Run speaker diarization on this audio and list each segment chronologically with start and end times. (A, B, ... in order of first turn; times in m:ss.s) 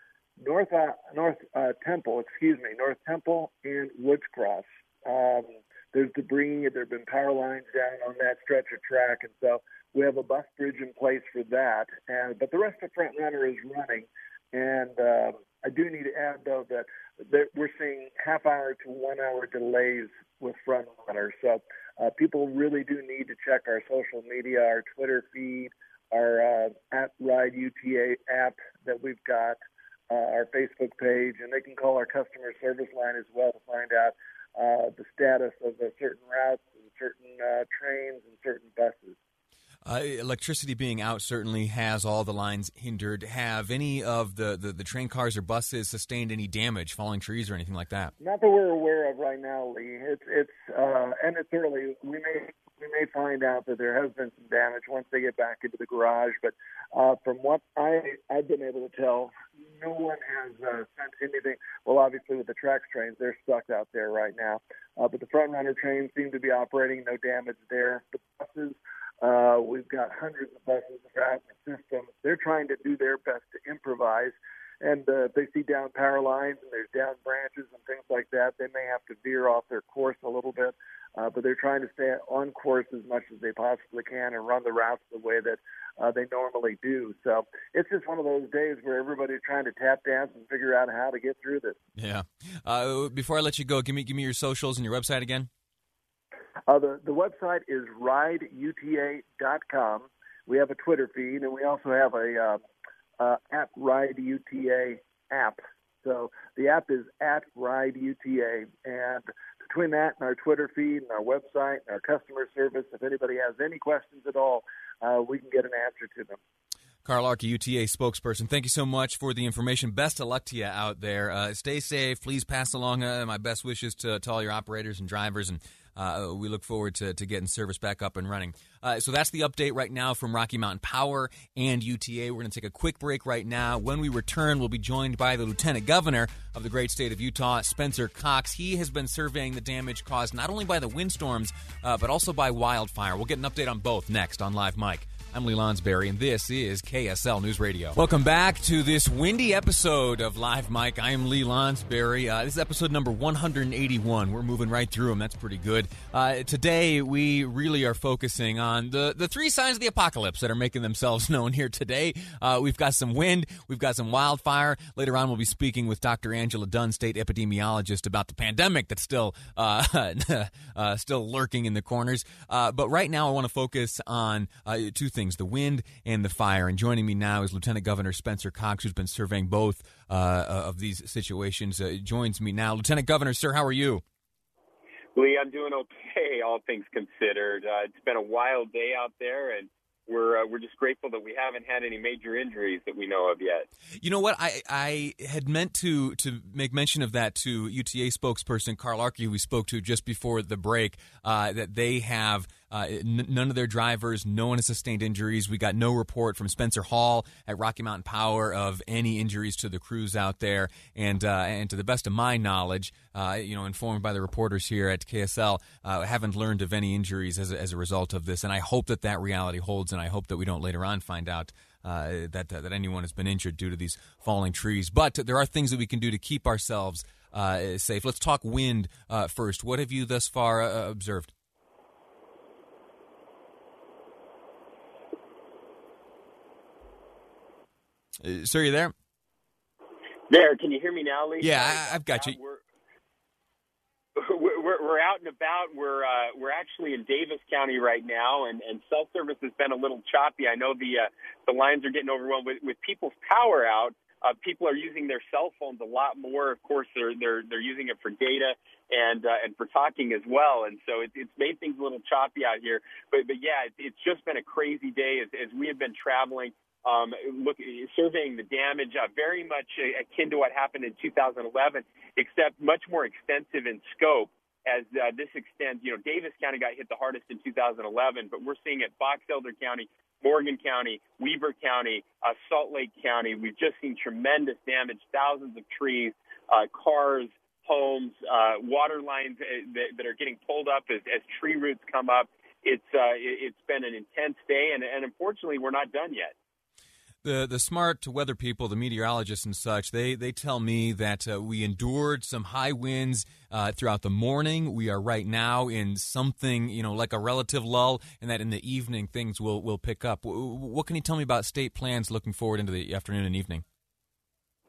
0:00.4-0:29.6 A
0:30.1-0:39.2 A
0:39.8-0:48.1 B
0:48.2-1:31.8 A
1:32.0-1:35.5 B
1:36.7-1:42.6 A
1:43.2-1:56.4 A
1:57.0-3:04.0 B
3:05.2-3:13.7 C
3:14.0-3:51.3 B
3:58.2-3:58.9 B
4:00.3-4:02.6 C
4:01.4-4:02.4 B
4:04.2-4:56.4 C
4:57.2-5:13.6 B